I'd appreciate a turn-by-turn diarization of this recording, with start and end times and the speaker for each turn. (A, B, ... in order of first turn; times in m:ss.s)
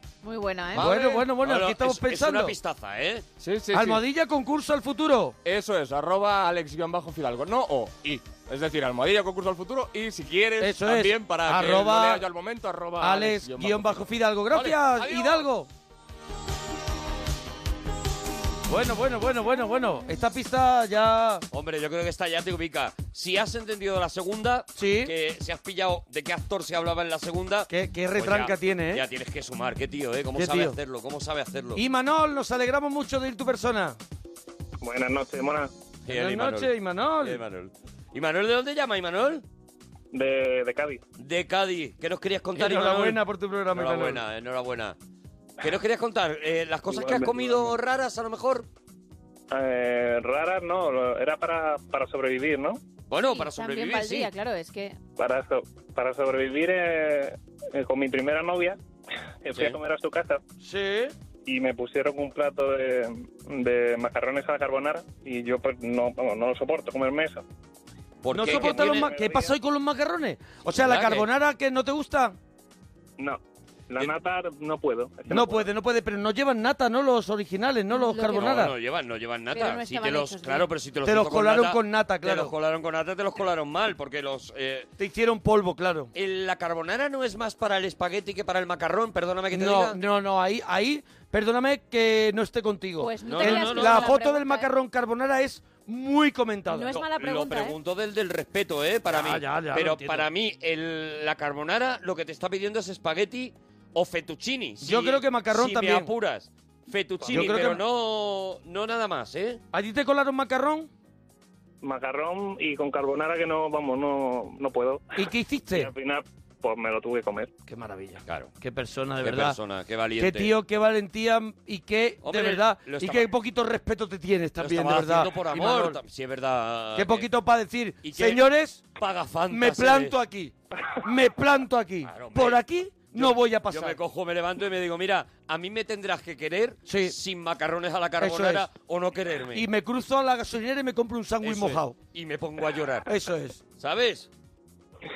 0:00.2-0:01.1 A
0:00.8-0:02.6 B
0:00.8-0:03.3 C
0:03.4-0:04.0 D
0:03.7-0:05.4 B
0:05.4-0:15.5 D
0:10.6-0:12.3 B
0:13.0-0:15.7 B
0:18.7-0:21.4 B
0:21.5-0:31.8 C
0:24.8-0:25.1 B
0:27.7-0:29.0 B
0:30.4-0:30.8 B
0:31.8-0:34.0 B
0:34.8-0:35.7 E
0:36.0-0:39.4 C
0:36.1-0:37.4 B
0:40.1-0:41.0 E
0:41.2-0:45.0 C
0:42.6-0:44.2 B
0:45.6-0:48.7 C
0:46.9-0:47.4 E
0:49.5-0:52.8 E
0:53.1-0:54.3 C
0:53.2-0:55.0 A
0:55.2-0:58.8 E
0:59.4-1:00.4 E
0:59.5-0:59.8 C
1:00.6-1:01.1 B
1:01.5-1:07.4 E
1:08.2-1:09.1 C
1:08.3-1:12.4 B
1:08.4-1:09.6 E
1:10.7-1:11.3 C
1:13.2-1:15.7 E
1:15.3-1:18.7 B
1:17.9-1:18.6 A
1:18.3-1:24.9 C
1:19.5-1:20.7 A
1:21.0-1:22.5 B
1:25.0-1:26.1 B
1:26.1-1:30.0 C
1:29.5-1:36.9 B
1:33.0-1:34.7 A
1:33.3-1:34.2 C
1:36.7-1:37.8 A
1:36.9-1:49.6 C
1:39.1-1:40.3 B
1:44.8-1:46.1 B
1:47.2-1:47.6 E
1:47.3-1:47.8 B
1:49.7-1:50.9 B
1:51.8-1:55.0 E
1:55.2-1:55.9 B
1:55.7-1:57.5 E
1:57.7-1:59.6 B
1:59.2-2:00.5 C
2:00.2-2:06.0 B
2:02.2-2:03.3 C
2:04.6-2:07.3 C
2:07.0-2:08.8 B
2:08.0-2:10.2 C
2:09.5-2:14.0 B
2:12.1-2:12.6 C
2:13.1-2:19.7 C
2:16.9-2:17.2 B
2:18.2-2:18.7 B
2:19.5-2:22.0 B
2:21.4-2:23.1 C
2:23.1-2:23.6 B
2:23.8-2:24.3 C